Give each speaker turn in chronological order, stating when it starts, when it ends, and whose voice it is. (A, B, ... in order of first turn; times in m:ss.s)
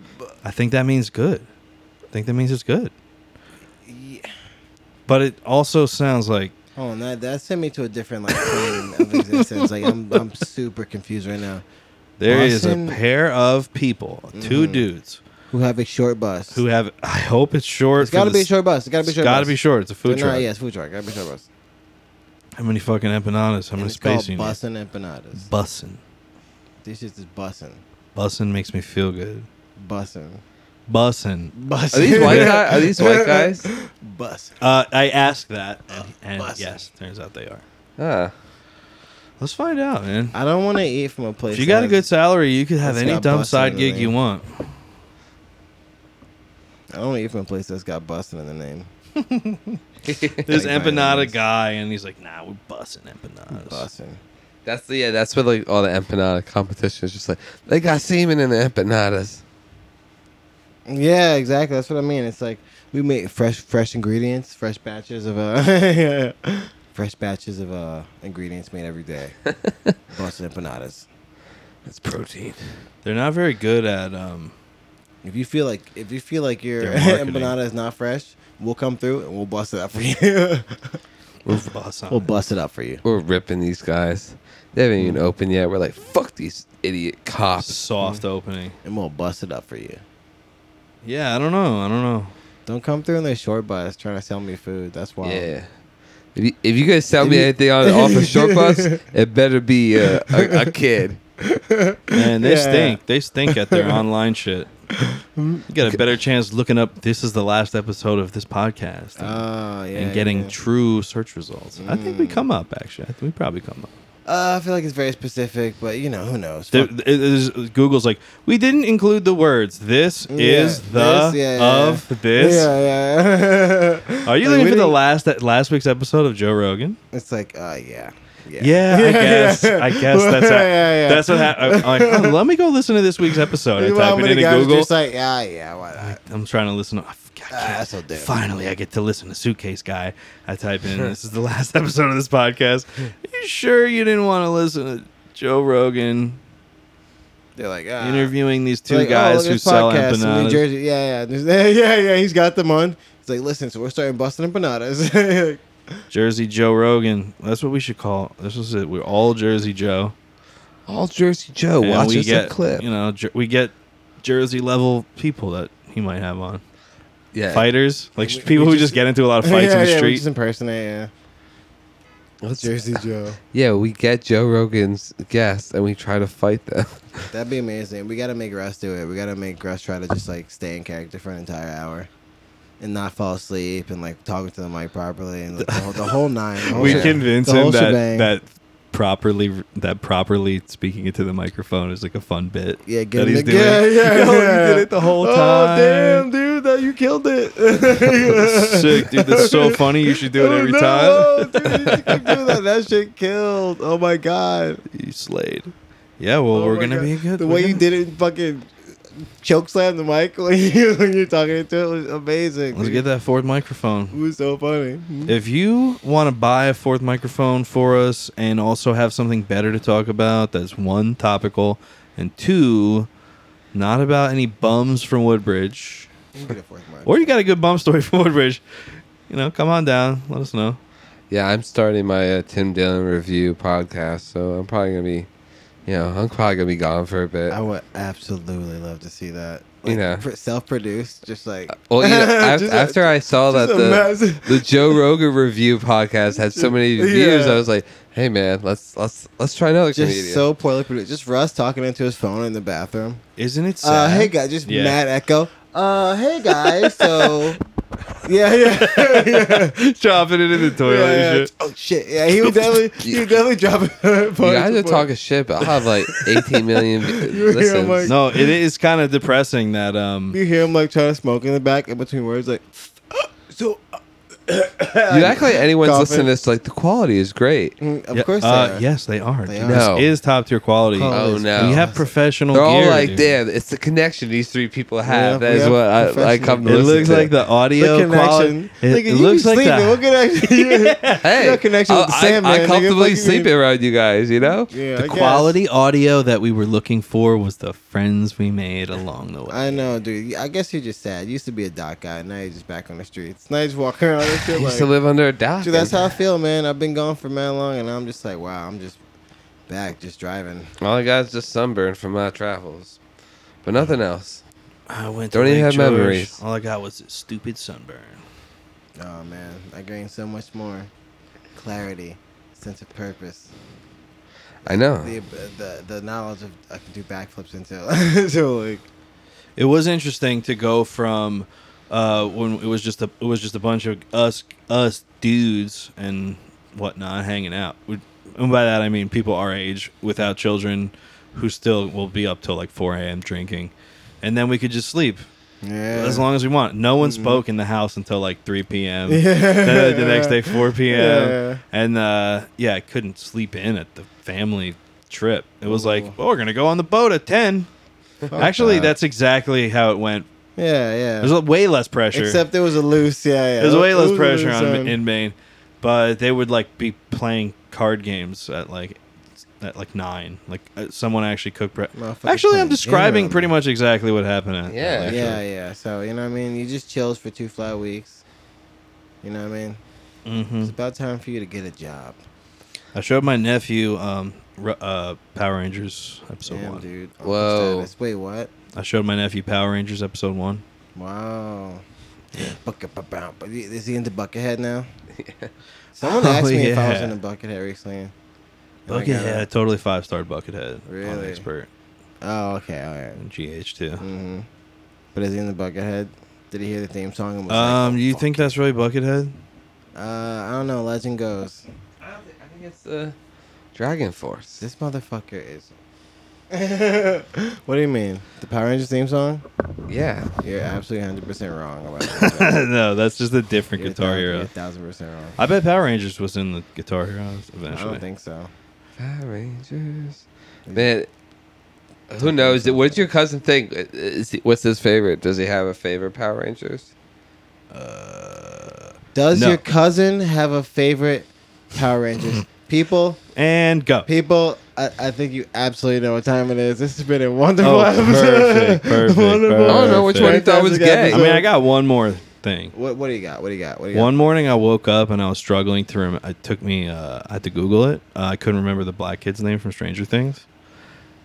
0:00.4-0:01.4 A
0:02.1-0:02.9 A
0:03.8-0:04.3 B
0:05.1-0:06.5 A
0:06.8-0:11.6 B
0:08.3-0:10.2 A
0:12.2-0:15.2 A
0:12.3-0:13.0 B
0:14.3-0:14.8 B
0:15.5-0:16.6 B
0:16.5-0:18.5 A
0:18.0-0:21.5 B
0:19.0-0:20.5 A
0:22.6-0:24.6 A
0:23.8-0:25.5 B
0:25.4-0:26.0 A
0:26.8-0:27.8 B
0:28.1-0:29.5 A
0:29.8-0:30.4 B
0:30.9-0:32.5 A
0:31.5-0:34.6 B
0:31.9-0:33.7 C
0:34.6-0:37.6 A
0:35.9-0:36.8 B
0:38.0-0:38.3 C
0:39.4-0:40.3 A
0:40.3-0:42.1 B
0:41.5-0:44.7 A
0:42.8-0:44.1 B
0:46.9-0:48.9 B
0:49.2-0:49.8 A
0:50.1-0:50.4 C
0:50.3-0:53.8 A
0:50.4-0:51.4 B
0:53.5-0:54.2 B
0:54.6-0:59.4 C
1:00.8-1:09.3 B
1:10.1-1:11.1 B
1:11.8-1:12.6 C
1:13.0-1:14.5 A
1:15.2-1:21.0 B
1:16.8-1:17.5 A
1:21.4-1:22.3 A
1:22.1-1:23.0 B
1:23.0-1:27.8 C
1:25.0-1:25.2 B
1:27.6-1:28.8 A
1:28.8-1:30.0 B
1:31.0-1:32.3 A
1:32.7-1:35.5 B
1:35.2-1:35.7 C
1:36.4-1:41.2 C
1:37.2-1:39.0 B
1:40.0-1:40.7 B
1:41.4-1:44.0 B
1:42.1-1:44.7 A
1:44.9-1:45.6 B
1:45.7-1:49.4 A
1:49.2-1:50.5 B
1:49.9-1:53.9 A
1:51.8-1:52.4 B
1:54.2-1:56.9 B
1:56.7-2:02.7 A
2:00.3-2:05.0 B
2:04.2-2:07.0 A
2:07.1-2:12.4 B
2:08.6-2:14.9 A
2:13.2-2:16.2 B
2:16.0-2:26.4 A
2:17.5-2:18.3 B
2:27.6-2:28.3 B
2:28.0-2:30.6 A
2:28.9-2:36.0 B
2:36.1-2:40.1 A
2:40.9-2:42.8 C
2:41.8-2:46.6 A
2:47.3-2:47.7 C
2:47.5-2:50.2 A
2:48.2-2:51.1 B
2:52.4-2:52.8 C
2:52.6-2:53.4 B
2:53.5-2:57.3 C
2:57.3-3:02.1 B
3:02.8-3:08.3 B
3:05.6-3:06.1 A
3:06.6-3:16.2 A
3:06.8-3:07.2 C
3:12.8-3:24.8 B
3:18.4-3:21.7 A
3:24.9-3:27.8 A
3:26.5-3:33.0 B
3:32.7-3:34.2 A
3:34.1-3:35.3 B
3:35.3-3:43.1 A
3:43.7-3:46.1 A
3:46.3-3:47.3 B
3:47.0-3:48.6 A
3:49.3-3:50.8 A
3:51.3-3:55.3 C
3:55.8-3:57.6 C
3:57.5-4:05.0 B
3:59.8-4:00.2 C
4:01.8-4:10.4 C
4:06.5-4:07.6 B
4:09.9-4:13.2 B
4:13.4-4:15.0 A
4:13.8-4:17.6 B
4:16.7-4:17.3 A
4:18.2-4:19.7 B
4:18.8-4:21.5 A
4:20.8-4:25.1 B
4:24.4-4:28.1 C
4:26.3-4:28.4 B
4:28.0-4:30.4 A
4:30.3-4:33.8 B
4:34.5-4:36.3 B
4:35.1-4:37.8 C
4:37.8-4:38.8 B
4:38.1-4:43.3 A
4:39.4-4:39.9 B
4:39.6-4:40.1 C
4:40.9-4:42.0 B
4:41.1-4:41.9 C
4:42.5-4:47.3 C
4:45.0-4:53.5 B
4:46.6-4:51.2 A
4:51.2-4:54.7 C
4:54.5-4:55.5 B
4:55.0-4:59.8 A
4:59.5-5:04.9 B
5:04.5-5:06.1 C
5:05.6-5:09.0 B
5:09.7-5:10.7 B
5:10.8-5:13.0 C
5:13.6-5:14.4 C
5:14.9-5:18.2 A
5:15.3-5:16.4 C
5:19.0-5:20.9 B
5:21.5-5:23.5 B
5:24.6-5:25.2 C
5:24.6-5:28.8 B
5:29.6-5:45.2 A
5:45.6-5:46.2 B
5:45.9-5:57.7 A
5:47.0-5:47.4 B
5:49.1-5:51.6 B
5:55.6-5:56.2 B
5:58.3-5:58.9 B
5:58.4-6:00.3 A
6:00.6-6:01.3 B
6:01.2-6:02.4 A
6:02.1-6:05.0 B
6:03.6-6:09.0 A
6:09.5-6:15.4 A
6:11.9-6:13.5 B
6:14.7-6:15.2 C
6:15.0-6:18.2 B
6:19.2-6:19.8 B
6:20.2-6:20.7 A
6:20.6-6:22.2 B
6:22.9-6:26.8 A
6:26.4-6:28.5 B
6:27.2-6:27.9 C
6:28.7-6:30.6 A
6:30.9-6:31.8 B
6:32.4-6:34.9 B
6:35.2-6:35.5 C
6:35.9-6:38.1 B
6:36.0-6:37.2 A
6:38.9-6:39.4 B
6:38.9-6:41.7 A
6:40.9-6:41.4 B
6:42.2-6:43.2 B
6:43.2-6:44.0 A
6:44.0-6:44.5 B
6:45.1-6:48.5 B
6:47.5-6:49.3 A
6:49.9-6:51.6 B
6:52.0-6:53.2 C
6:53.7-6:54.6 C
6:54.6-6:55.7 B
6:56.5-6:59.4 B
6:59.9-7:00.3 C
7:00.4-7:02.6 B
7:02.0-7:04.5 A
7:03.8-7:05.4 B
7:05.4-7:08.0 A
7:07.7-7:08.5 B
7:09.0-7:11.1 C
7:12.1-7:16.9 C
7:12.2-7:13.0 B
7:17.7-7:19.6 A
7:19.1-7:23.2 B
7:23.4-7:24.1 A
7:24.0-7:31.5 B
7:27.6-7:30.4 A
7:29.7-7:31.2 C
7:31.1-7:32.7 A
7:32.7-7:34.1 B
7:33.9-7:40.4 A